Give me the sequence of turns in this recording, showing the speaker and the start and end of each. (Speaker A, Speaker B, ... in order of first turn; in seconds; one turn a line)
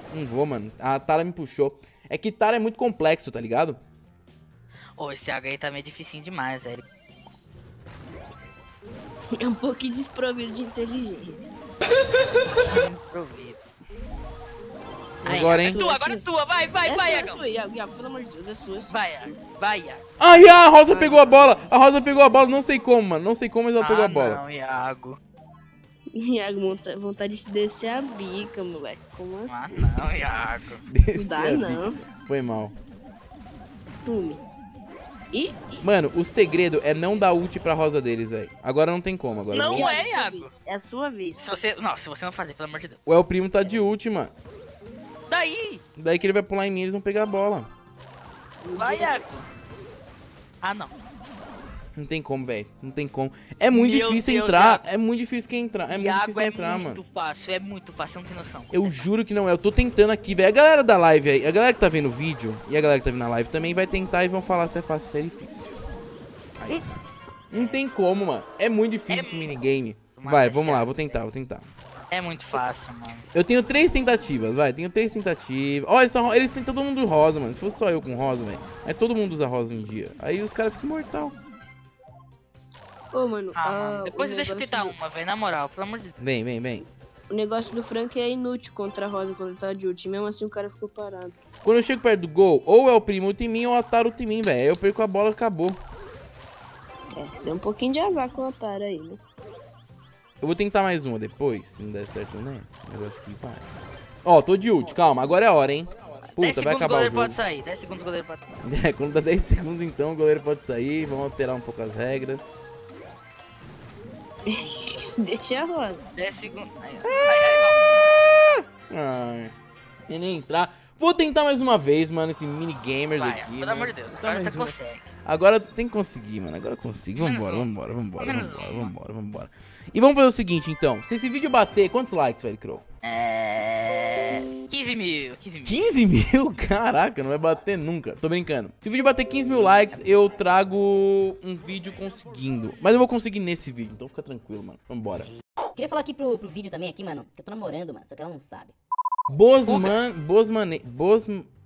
Speaker A: 0.1-3.8
Speaker B: 5.0-6.8
Speaker C: 9.3-11.5
Speaker B: 12.5-13.6
Speaker C: 15.2-16.2
Speaker A: 15.2-15.8
Speaker B: 15.2-17.4
Speaker C: 16.8-19.0
Speaker B: 18.9-20.5
Speaker A: 20.2-24.4
Speaker C: 20.7-21.6
Speaker B: 23.8-25.2
Speaker C: 26.1-30.1
Speaker B: 29.5-30.8
Speaker A: 30.9-32.7
Speaker C: 31.1-32.0
Speaker C: 34.0-34.4
Speaker C: 35.3-35.8
Speaker A: 35.8-40.0
Speaker B: 39.5-40.5
Speaker C: 39.7-41.4
Speaker B: 41.3-43.0
Speaker A: 43.0-44.3
Speaker B: 45.3-45.8
Speaker A: 46.0-47.7
Speaker C: 48.6-49.2
Speaker B: 48.8-49.5
Speaker B: 50.6-50.9
Speaker A: 52.0-57.0
Speaker B: 53.7-54.8
Speaker B: 55.9-59.1
Speaker A: 58.7-65.7
Speaker A: 67.5-71.7
Speaker B: 67.5-67.8
Speaker B: 69.1-69.5
Speaker B: 70.1-71.2
Speaker B: 72.1-73.2
Speaker A: 73.3-81.3
Speaker C: 83.1-85.0
Speaker B: 83.5-86.1
Speaker A: 86.2-86.8
Speaker C: 87.3-91.3
Speaker A: 91.6-95.8
Speaker C: 97.1-99.2
Speaker A: 100.4-103.7
Speaker A: 104.2-107.4
Speaker B: 106.4-108.6
Speaker A: 108.6-112.5
Speaker C: 114.5-116.0
Speaker B: 116.2-117.8
Speaker A: 117.0-117.6
Speaker A: 118.4-119.5
Speaker A: 120.1-132.8
Speaker B: 123.2-125.0
Speaker B: 127.2-128.9
Speaker B: 133.0-135.8
Speaker A: 135.6-145.3
Speaker D: 145.7-148.7
Speaker A: 149.3-151.5
Speaker B: 149.7-150.0